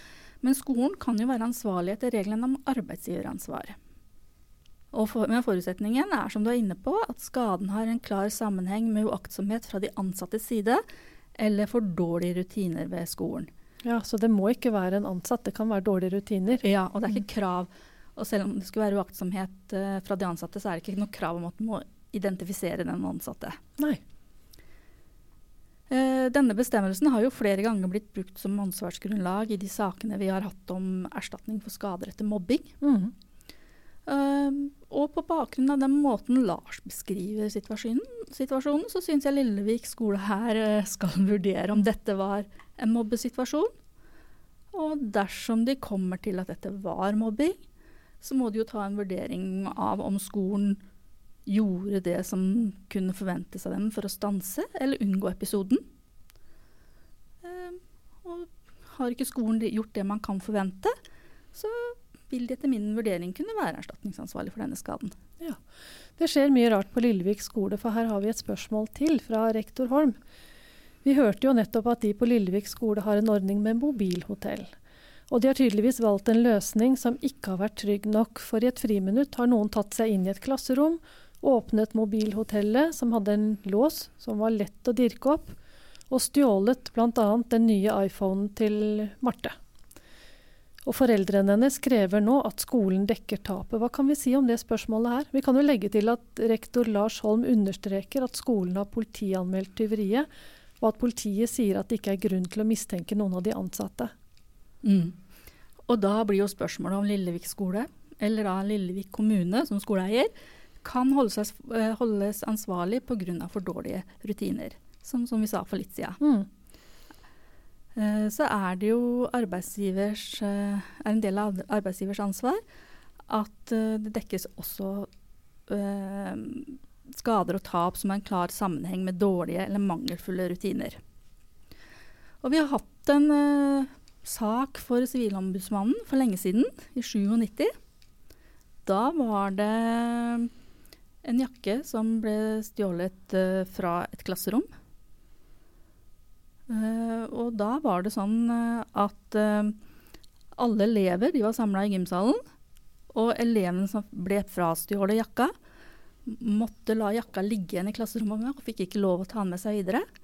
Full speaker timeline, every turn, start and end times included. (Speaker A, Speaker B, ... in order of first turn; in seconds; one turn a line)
Speaker A: 0.4-3.8
Speaker A: 4.9-10.8
Speaker A: 11.4-13.5
Speaker B: 13.8-16.6
Speaker A: 16.6-23.6
Speaker A: 25.9-32.7
Speaker B: 32.8-33.1
Speaker A: 34.0-43.7
Speaker A: 44.7-47.6
Speaker A: 48.2-50.8
Speaker A: 51.5-55.8
Speaker A: 57.4-60.9
Speaker A: 61.5-65.1
Speaker B: 66.2-70.2
Speaker B: 71.0-74.7
Speaker B: 75.3-85.5
Speaker B: 86.1-89.5
Speaker B: 90.8-100.3
Speaker B: 100.8-104.1
Speaker A: 104.8-105.1
Speaker A: 105.9-110.3
Speaker A: 110.8-116.2
Speaker B: 116.2-116.5
Speaker A: 118.0-122.6
Speaker A: 123.3-125.1
Speaker A: 125.7-131.0
Speaker A: 132.4-137.7
Speaker A: 138.8-140.5
Speaker A: 141.2-144.7
Speaker A: 146.7-149.7
Speaker A: 150.6-152.4
Speaker A: 153.1-155.5
Speaker A: 156.2-160.1